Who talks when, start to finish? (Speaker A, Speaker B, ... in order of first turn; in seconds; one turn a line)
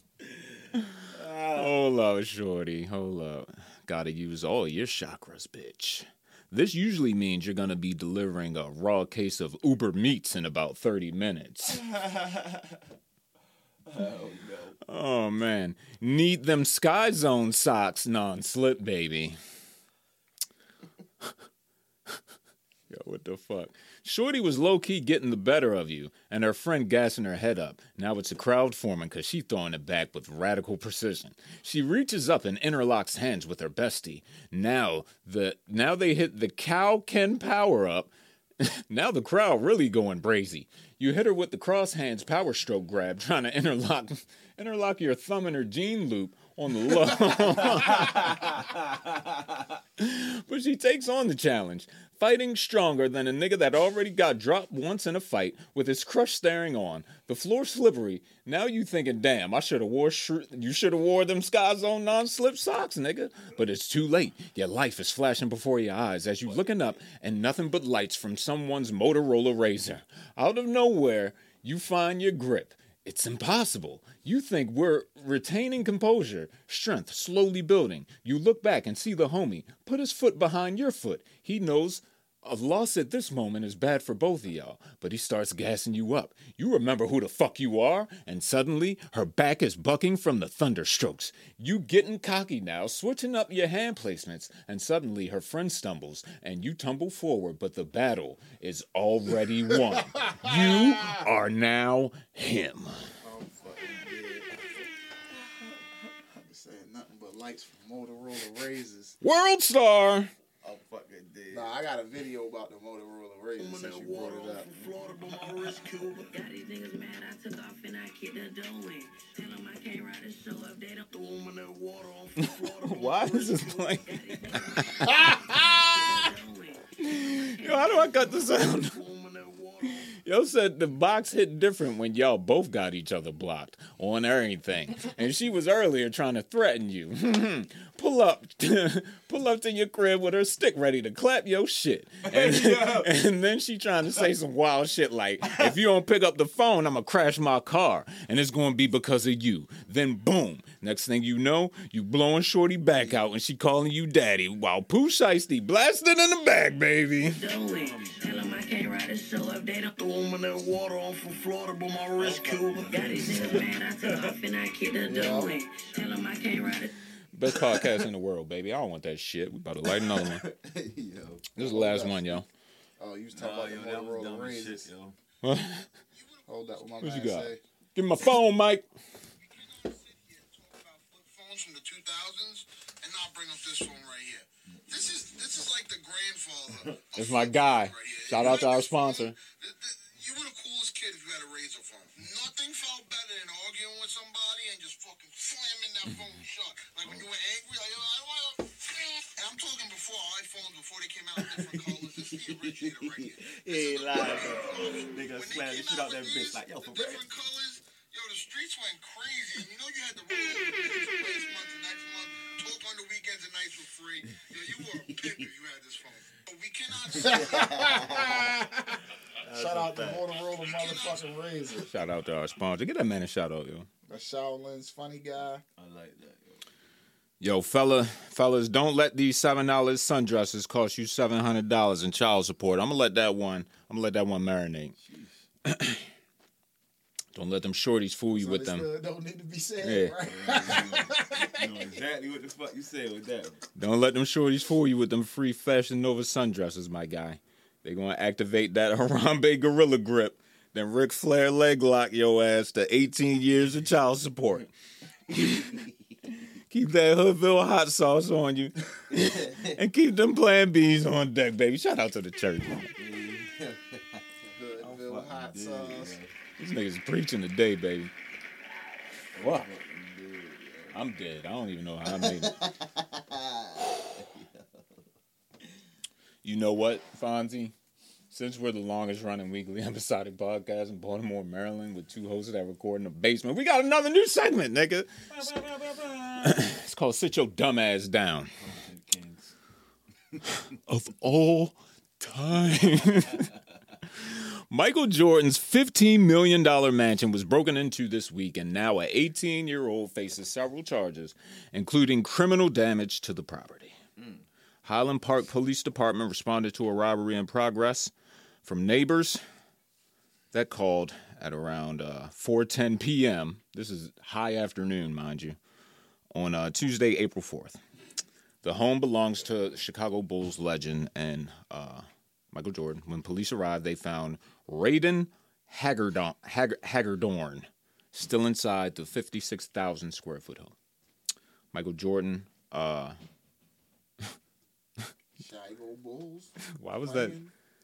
Speaker A: 0.2-1.8
Speaker B: 0.7-11.8
Speaker A: 11.7-12.8
Speaker A: 13.8-14.8
Speaker B: 14.8-19.4
Speaker B: 22.9-48.7
Speaker A: 47.7-48.3
Speaker B: 50.0-103.1
Speaker A: 66.5-67.0
Speaker C: 100.2-101.2
Speaker C: 103.2-104.7
Speaker C: 105.3-109.2
Speaker B: 109.2-110.3
Speaker A: 110.6-111.7
Speaker C: 111.5-114.7
Speaker D: 113.6-130.1
Speaker A: 114.7-115.9
Speaker B: 122.4-126.3
Speaker B: 127.0-129.0
Speaker B: 130.1-157.4
Speaker A: 142.2-143.1
Speaker A: 145.4-145.7
Speaker D: 157.2-166.9
Speaker A: 157.6-158.2
Speaker A: 162.1-164.4
Speaker C: 165.0-165.6
Speaker B: 167.3-170.4
Speaker A: 167.5-168.1
Speaker A: 169.8-171.5
Speaker B: 171.5-172.4
Speaker C: 171.6-172.4
Speaker C: 173.0-174.9
Speaker A: 173.3-175.2
Speaker B: 175.4-175.9
Speaker E: 176.1-176.6
Speaker C: 176.5-177.6
Speaker B: 177.0-178.8
Speaker E: 179.4-218.3
Speaker A: 184.7-185.2
Speaker B: 187.1-189.4
Speaker A: 201.4-207.3
Speaker A: 214.6-215.5
Speaker C: 217.1-221.9
Speaker A: 217.1-218.5
Speaker A: 219.4-220.2
Speaker E: 220.6-221.3
Speaker B: 221.9-223.9
Speaker C: 224.1-225.6
Speaker A: 225.8-226.7
Speaker B: 227.4-234.9
Speaker A: 235.0-235.4
Speaker B: 235.6-236.1
Speaker B: 237.3-238.9
Speaker C: 238.3-242.0
Speaker B: 239.8-240.2
Speaker A: 240.2-243.6
Speaker B: 243.7-254.7
Speaker B: 255.3-255.8
Speaker B: 256.5-262.9
Speaker A: 259.1-259.8
Speaker A: 263.0-266.3
Speaker C: 264.5-266.2
Speaker B: 266.6-268.1
Speaker A: 269.3-271.0
Speaker B: 269.3-269.7
Speaker B: 270.9-272.7
Speaker A: 272.1-275.0
Speaker B: 276.4-277.7
Speaker B: 278.3-285.6
Speaker A: 285.3-286.6
Speaker B: 286.4-288.6
Speaker A: 288.6-289.5
Speaker A: 290.3-290.6
Speaker B: 290.7-304.0
Speaker A: 304.2-304.4
Speaker B: 304.8-308.1
Speaker B: 308.6-309.4
Speaker B: 310.5-315.6
Speaker B: 316.3-317.8
Speaker B: 318.6-330.7
Speaker B: 331.7-333.2
Speaker C: 335.4-337.5
Speaker B: 336.7-337.5